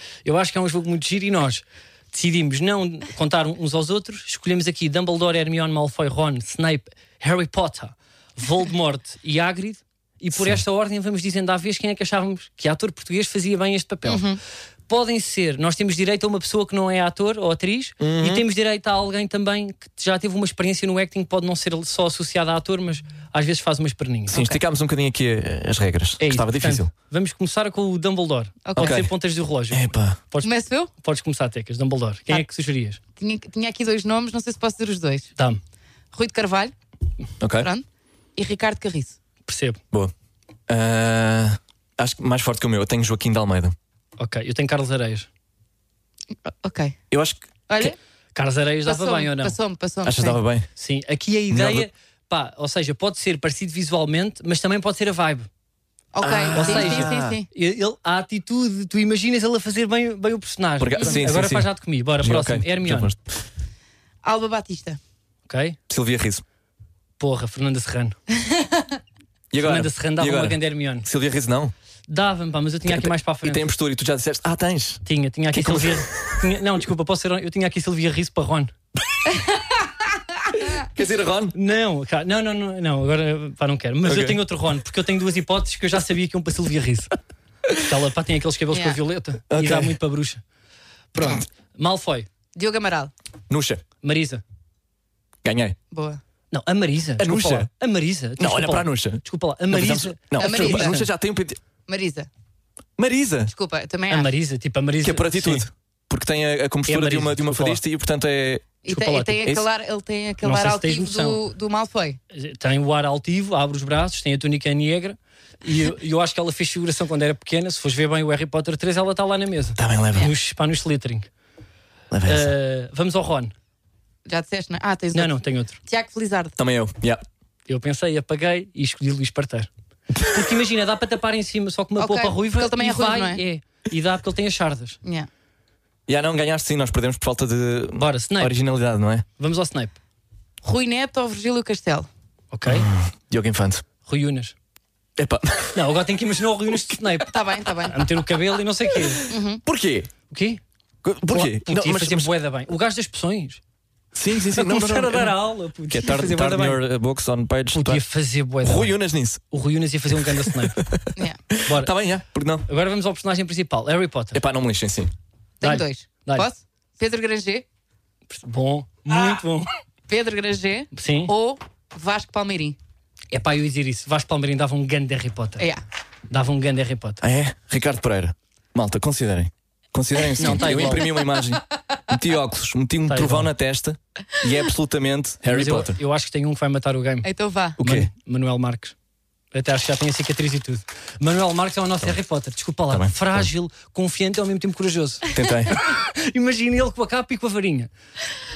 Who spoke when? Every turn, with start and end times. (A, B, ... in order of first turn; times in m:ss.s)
0:00.2-0:14.2 A
0:10.4-0:10.6 B
0:14.0-0:14.4 C
0:14.9-0:24.5 A
0:18.0-0:18.4 B
0:24.3-0:26.9 B
0:26.2-0:33.0 A
0:28.7-0:29.0 C
0:28.8-0:29.1 B
0:29.7-0:30.2 B
0:30.4-0:30.9 C
0:33.2-0:35.3 C
0:36.1-0:36.7 C
0:37.4-0:37.7 B
0:37.6-0:37.8 C
0:38.4-0:39.2 C
0:39.5-0:39.8 A
0:40.7-0:43.8 B
0:44.2-0:45.3 A
0:46.5-0:47.0 C
0:47.1-0:47.9 B
0:47.7-0:48.0 C
0:48.4-0:49.6 A
0:48.8-0:50.4 C
0:50.0-0:50.7 B
0:50.8-0:55.5 A
0:51.5-0:51.9 B
0:56.1-0:57.5 C
0:56.2-0:57.4 B
0:56.5-1:03.1 A
1:00.8-1:03.4 B
1:04.2-1:05.0 C
1:05.5-1:05.8 A
1:05.9-1:06.4 B
1:07.2-1:08.2 A
1:08.4-1:08.9 C
1:09.5-1:11.7 B
1:09.6-1:11.1 A
1:12.1-1:13.7 A
1:12.9-1:16.1 B
1:15.0-1:18.7 A
1:20.7-1:21.6 B
1:21.5-1:27.1 A
1:24.0-1:24.4 B
1:27.8-1:30.4 A
1:28.7-1:29.0 C
1:29.5-1:30.0 B
1:31.1-1:32.3 A
1:32.6-1:33.1 C
1:33.5-1:33.8 B
1:34.0-1:34.4 A
1:35.4-1:35.8 B
1:35.9-1:36.2 C
1:36.5-1:41.1 A
1:37.2-1:37.7 B
1:38.4-1:41.6 B
1:40.4-1:41.0 C
1:41.9-1:42.3 C
1:43.0-1:43.5 B
1:43.5-1:44.3 C
1:44.1-1:45.7 A
1:45.0-1:48.8 B
1:46.9-1:47.8 A
1:48.8-1:52.2 C
1:48.9-1:49.5 A
1:50.4-1:51.4 A
1:52.3-2:01.3 A
1:59.8-2:00.3 B
2:02.1-2:02.5 B
2:02.2-2:03.5 A
2:04.3-2:06.6 C
2:05.1-2:05.8 A
2:06.6-2:07.2 B
2:07.7-2:15.0 A
2:12.0-2:13.4 C
2:16.1-2:19.2 B
2:18.0-2:18.6 A
2:19.4-2:20.0 A
2:20.6-2:22.1 C
2:22.5-2:22.9 A
2:22.7-2:23.8 B
2:24.0-2:24.6 A
2:25.2-2:25.9 B
2:25.8-2:27.4 A
2:27.3-2:28.0 C
2:27.9-2:29.3 A
2:29.3-2:29.6 C
2:29.6-2:30.1 B
2:30.3-2:30.6 A
2:31.0-2:32.3 B
2:31.3-2:33.6 A
2:34.1-2:38.0 B
2:34.5-2:36.8 A
2:37.7-2:39.0 A
2:38.6-2:39.4 B
2:39.5-2:40.8 A
2:40.3-2:42.7 B
2:41.7-2:41.9 A
2:42.7-2:44.4 A
2:44.3-2:45.1 B
2:45.6-2:47.6 C
2:45.6-2:46.5 A
2:48.3-2:49.7 A
2:50.1-2:52.8 C
2:50.9-2:51.3 A
2:53.3-2:55.7 A
2:56.3-2:57.2 A
2:57.2-3:06.0 B
3:00.4-3:01.1 A
3:03.1-3:03.5 A
3:05.5-3:09.0 A
3:07.2-3:07.8 C
3:07.8-3:08.1 B
3:09.5-3:17.9 A
3:12.9-3:13.5 B
3:15.3-3:15.8 B